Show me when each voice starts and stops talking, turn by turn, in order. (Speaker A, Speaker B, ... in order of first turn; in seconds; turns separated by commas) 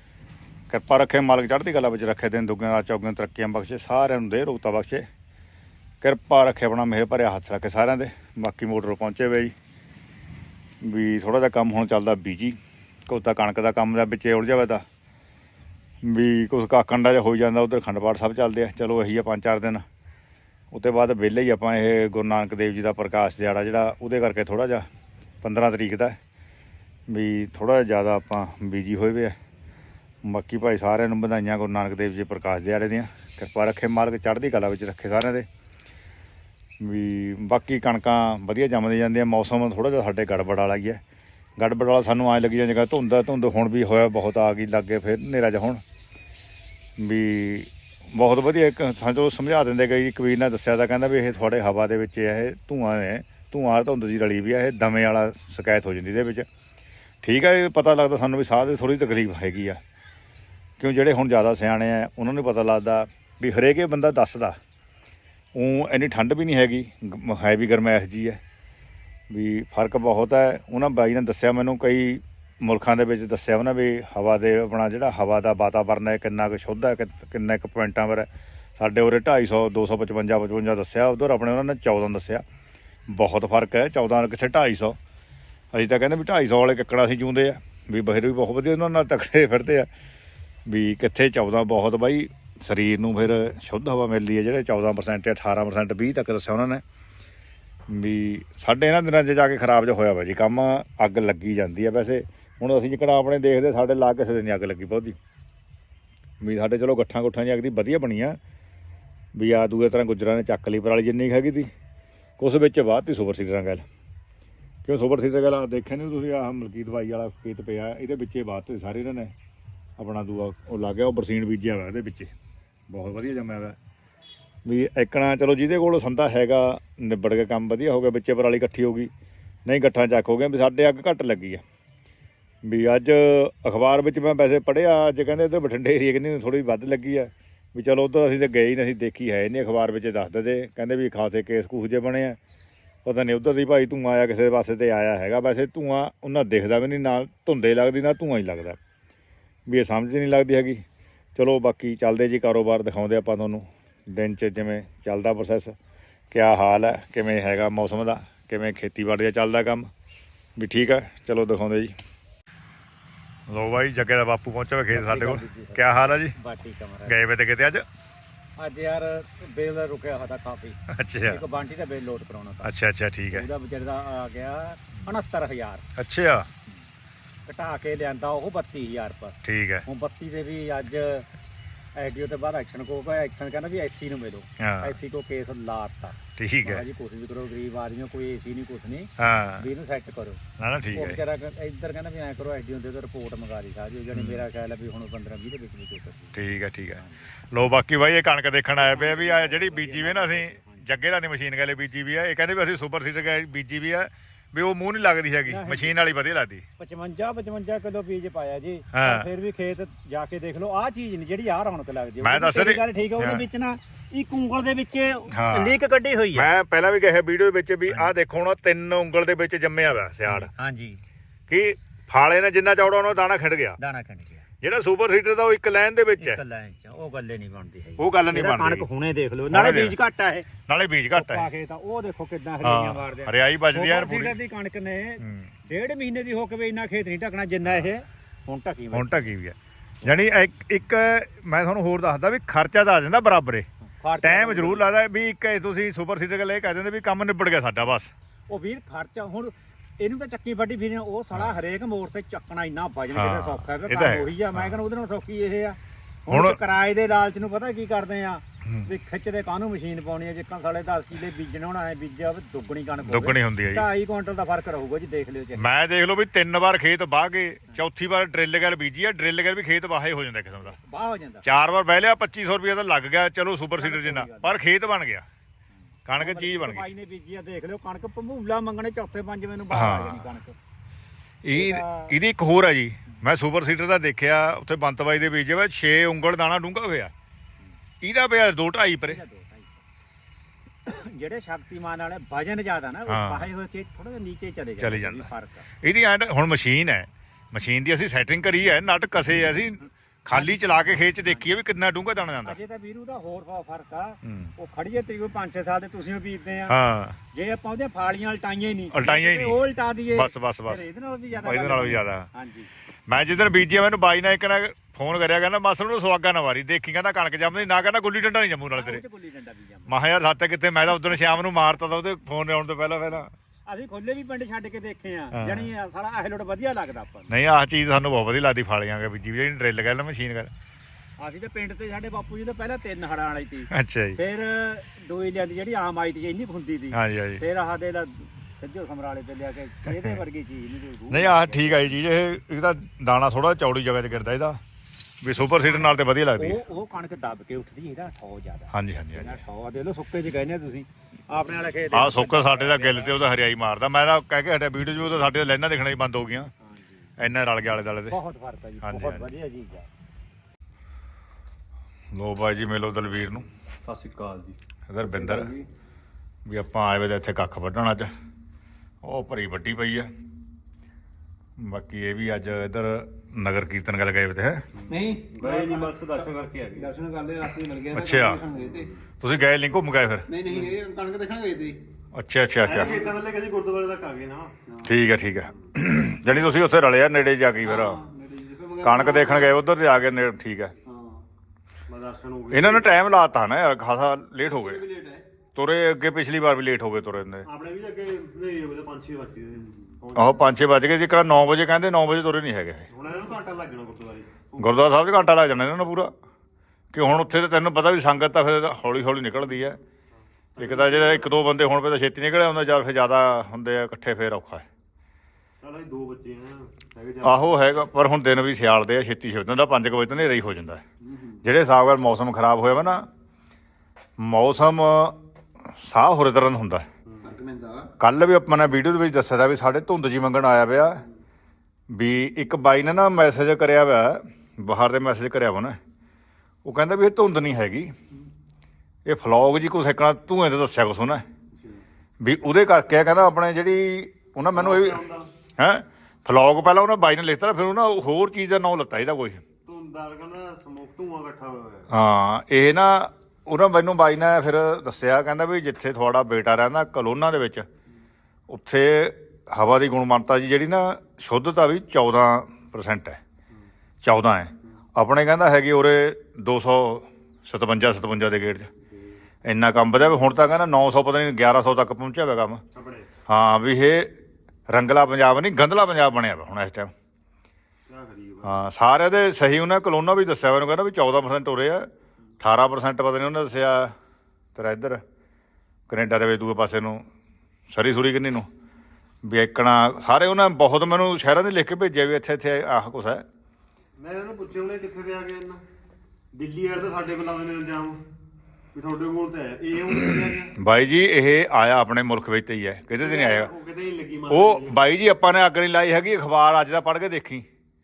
Speaker A: 0.7-5.1, Speaker A: 6.0-9.5, Speaker A: 10.8-14.8, Speaker A: 16.0-19.8, Speaker A: 20.7-24.9, Speaker A: 25.4-26.2, Speaker A: 27.1-29.4, Speaker A: 30.2-35.5, Speaker A: 36.8-41.0, Speaker A: 41.6-45.8, Speaker A: 47.0-56.5, Speaker A: 57.2-59.8, Speaker A: 60.8-64.6, Speaker A: 65.5-68.4, Speaker A: 69.3-82.4, Speaker A: 83.1-85.0, Speaker A: 85.7-89.9, Speaker A: 90.7-96.8, Speaker A: 97.9-105.2, Speaker A: 106.4-108.4, Speaker A: 109.3-111.7, Speaker A: 112.4-113.8, Speaker A: 114.8-119.3, Speaker A: 120.0-122.3, Speaker A: 122.9-123.8, Speaker A: 124.7-129.1, Speaker A: 129.7-131.6, Speaker A: 132.6-142.4, Speaker A: 143.1-148.8, Speaker A: 149.7-150.8, Speaker A: 151.4-155.8, Speaker A: 156.3-159.9, Speaker A: 160.6-162.0, Speaker A: 163.5-166.3, Speaker B: 164.9-167.2, Speaker A: 167.1-167.8, Speaker B: 168.6-172.7, Speaker A: 170.9-171.4, Speaker A: 172.6-173.5, Speaker B: 173.3-175.8, Speaker A: 176.0-176.5, Speaker B: 177.5-181.3, Speaker A: 179.4-179.9, Speaker B: 182.0-190.4, Speaker A: 184.6-185.0, Speaker A: 186.4-186.8, Speaker A: 189.2-189.7, Speaker A: 190.6-191.2, Speaker B: 190.9-196.4, Speaker A: 194.1-194.4, Speaker A: 196.3-206.7, Speaker B: 197.0-197.3, Speaker B: 198.8-200.8, Speaker B: 205.5-205.9, Speaker B: 206.8-216.5, Speaker A: 208.9-209.3, Speaker A: 212.2-213.4, Speaker A: 215.3-215.8, Speaker A: 216.3-220.5, Speaker B: 220.3-221.0, Speaker A: 221.5-223.8, Speaker B: 223.8-224.5, Speaker A: 224.6-226.4, Speaker B: 226.2-230.5, Speaker A: 228.0-228.9, Speaker A: 229.5-230.0, Speaker A: 230.7-231.5, Speaker B: 231.1-239.3, Speaker A: 232.6-234.4, Speaker A: 235.2-235.5, Speaker A: 238.9-243.7, Speaker B: 243.9-244.9, Speaker A: 244.2-248.1, Speaker B: 248.5-265.7, Speaker A: 253.1-254.7, Speaker A: 256.3-256.6, Speaker A: 258.6-258.9, Speaker A: 263.0-263.9, Speaker A: 265.6-270.8, Speaker B: 270.6-271.4, Speaker A: 271.4-275.3, Speaker B: 273.8-274.5, Speaker A: 276.1-276.9, Speaker B: 276.2-280.6, Speaker A: 279.7-280.3, Speaker A: 281.4-287.1, Speaker B: 281.5-282.1, Speaker A: 288.0-289.2, Speaker B: 289.1-289.8, Speaker B: 290.9-295.7, Speaker A: 293.1-293.5, Speaker A: 294.8-295.3, Speaker A: 295.8-302.6, Speaker B: 300.3-300.6, Speaker B: 302.4-306.8, Speaker A: 304.2-304.5, Speaker A: 306.7-307.2, Speaker B: 307.3-312.7, Speaker A: 308.9-309.6, Speaker A: 310.1-312.3, Speaker A: 313.1-319.0, Speaker B: 318.8-319.9, Speaker A: 319.9-323.3, Speaker B: 323.7-327.3, Speaker A: 325.3-325.7, Speaker A: 327.3-330.5, Speaker B: 331.2-342.0, Speaker A: 333.7-334.2, Speaker A: 336.9-337.4, Speaker A: 339.9-340.2, Speaker A: 341.1-344.6, Speaker A: 345.2-346.6, Speaker B: 345.6-353.2, Speaker A: 348.7-349.4, Speaker A: 351.9-356.5, Speaker B: 356.6-357.1, Speaker A: 357.2-358.2, Speaker B: 358.1-359.9, Speaker A: 358.8-359.3, Speaker A: 362.1-363.5, Speaker C: 363.9-364.6, Speaker A: 364.9-365.5, Speaker D: 365.1-365.6, Speaker A: 366.5-368.1, Speaker A: 369.0-370.1, Speaker A: 371.6-374.6, Speaker C: 374.8-376.9, Speaker D: 374.9-379.0, Speaker A: 377.9-378.4, Speaker C: 378.6-379.0, Speaker A: 379.2-380.3, Speaker D: 380.3-381.8, Speaker C: 380.5-380.8, Speaker A: 382.1-383.0, Speaker C: 382.6-384.5, Speaker D: 382.6-383.2, Speaker D: 384.7-384.9, Speaker A: 384.9-388.0, Speaker D: 387.6-389.6, Speaker A: 388.8-390.7, Speaker D: 390.9-391.2, Speaker C: 391.9-392.9, Speaker A: 392.5-394.9, Speaker D: 394.4-395.2, Speaker A: 395.6-397.5, Speaker C: 397.4-400.5, Speaker A: 400.1-402.9, Speaker C: 402.9-404.7, Speaker A: 404.6-406.1, Speaker A: 406.9-409.8, Speaker C: 410.6-411.3, Speaker A: 410.6-414.7, Speaker C: 415.6-417.6, Speaker A: 417.2-420.8, Speaker D: 421.0-421.4, Speaker A: 421.4-423.1, Speaker A: 424.2-426.9, Speaker C: 427.1-427.3, Speaker D: 427.2-427.9, Speaker A: 428.0-431.0, Speaker A: 431.9-435.8, Speaker A: 436.6-437.9, Speaker A: 439.1-441.2, Speaker A: 442.2-445.0, Speaker C: 444.5-445.3, Speaker A: 445.6-449.4, Speaker C: 449.7-451.9, Speaker A: 451.9-457.7, Speaker A: 458.5-463.2, Speaker A: 464.0-468.7, Speaker A: 469.4-472.6, Speaker C: 472.7-473.1, Speaker A: 473.3-474.1, Speaker A: 474.7-476.9, Speaker C: 477.9-478.6, Speaker A: 478.4-483.9, Speaker A: 484.6-485.0, Speaker A: 485.9-487.1, Speaker A: 487.7-488.5, Speaker A: 489.2-493.2, Speaker C: 494.0-495.6, Speaker C: 496.4-498.0, Speaker C: 498.7-500.6, Speaker A: 499.9-503.5, Speaker C: 503.0-504.8, Speaker A: 504.3-507.5